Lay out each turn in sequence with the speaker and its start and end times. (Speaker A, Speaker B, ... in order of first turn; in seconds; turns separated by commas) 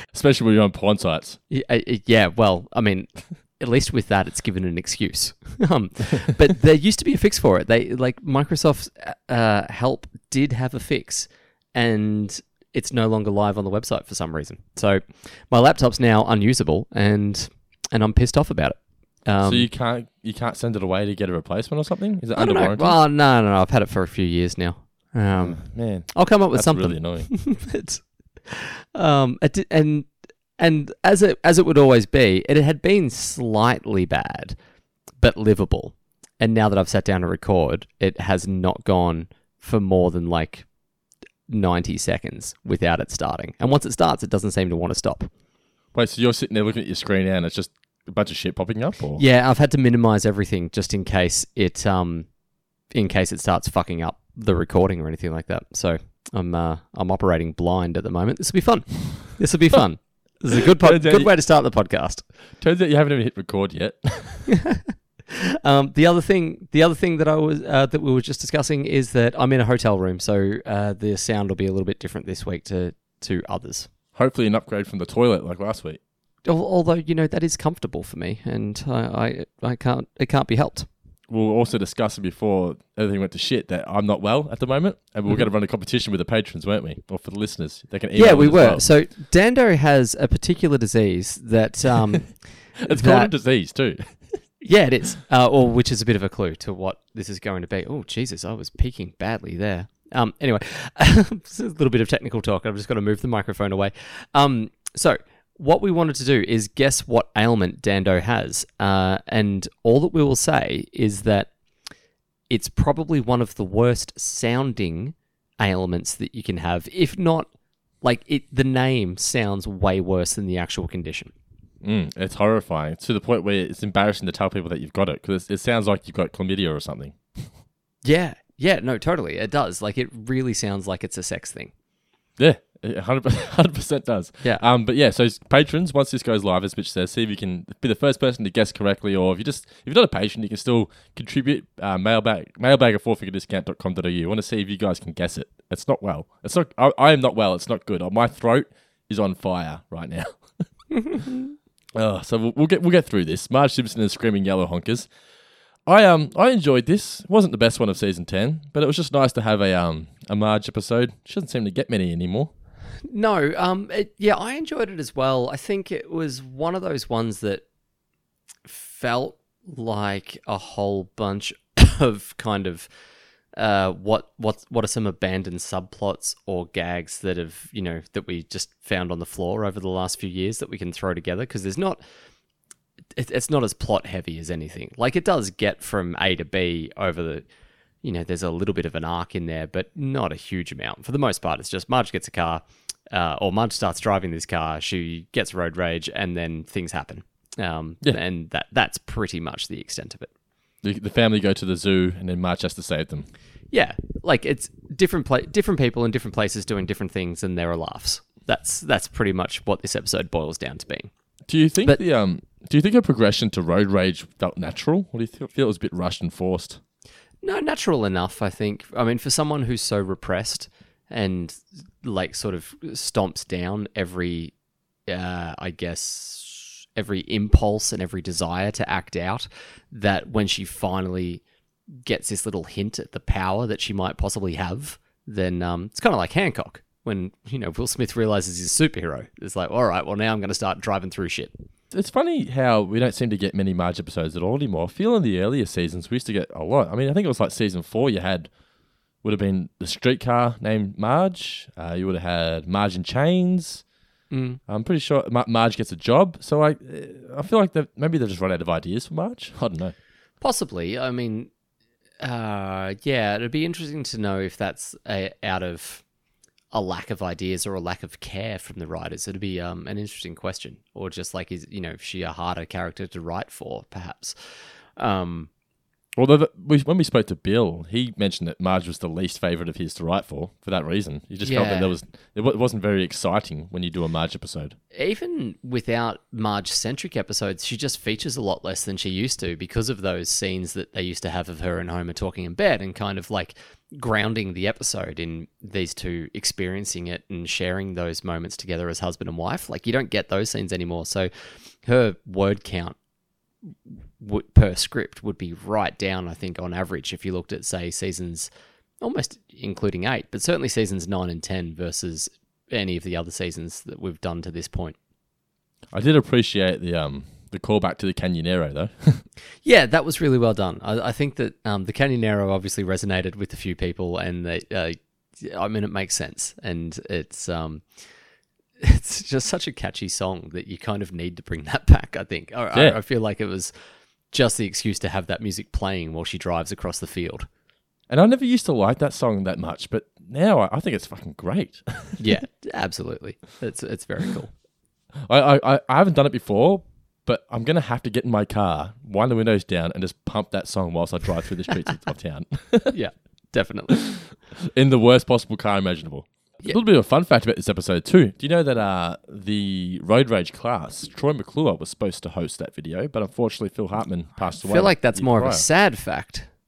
Speaker A: 0.1-1.4, Speaker B: 1.5-19.7, Speaker A: 19.4-23.0, Speaker B: 22.4-34.5, Speaker A: 25.4-27.3, Speaker B: 35.2-40.6, Speaker B: 41.5-45.3, Speaker A: 45.9-49.2, Speaker B: 49.2-52.3, Speaker B: 52.9-62.2, Speaker A: 60.6-61.3, Speaker A: 62.6-64.5, Speaker B: 64.5-73.9, Speaker A: 74.1-76.0, Speaker B: 76.4-80.9, Speaker A: 81.3-88.9, Speaker B: 88.1-93.3, Speaker A: 92.8-94.4, Speaker B: 94.6-111.5, Speaker B: 112.5-121.3, Speaker A: 121.8-127.5, Speaker B: 128.0-131.7, Speaker A: 132.4-150.6, Speaker B: 150.9-151.5, Speaker A: 151.9-155.1, Speaker A: 155.8-162.5, Speaker B: 163.1-167.6, Speaker B: 168.7-172.9, Speaker B: 173.5-182.0, Speaker B: 183.1-187.4, Speaker B: 188.0-200.3, Speaker A: 200.8-203.3, Speaker B: 203.7-211.1, Speaker A: 211.5-216.8, Speaker B: 217.4-224.5, Speaker B: 225.1-231.4, Speaker B: 231.9-241.6, Speaker A: 241.9-248.5, Speaker A: 249.2-253.8, Speaker B: 254.3-254.6, Speaker A: 254.7-259.9, Speaker B: 260.4-261.5, Speaker B: 262.2-266.0, Speaker B: 266.7-275.5, Speaker A: 276.1-284.8, Speaker B: 281.4-281.9, Speaker B: 284.9-301.3, Speaker B: 301.8-302.9, Speaker B: 303.6-308.5, Speaker B: 309.0-314.9, Speaker A: 315.9-319.2, Speaker B: 319.6-327.8, Speaker B: 328.8-333.8, Speaker A: 332.7-333.0, Speaker B: 334.3-337.5, Speaker A: 338.1-342.2, Speaker B: 342.2-344.5, Speaker A: 345.2-352.9, Speaker B: 352.9-354.0, Speaker A: 353.9-365.6, Speaker B: 364.6-366.5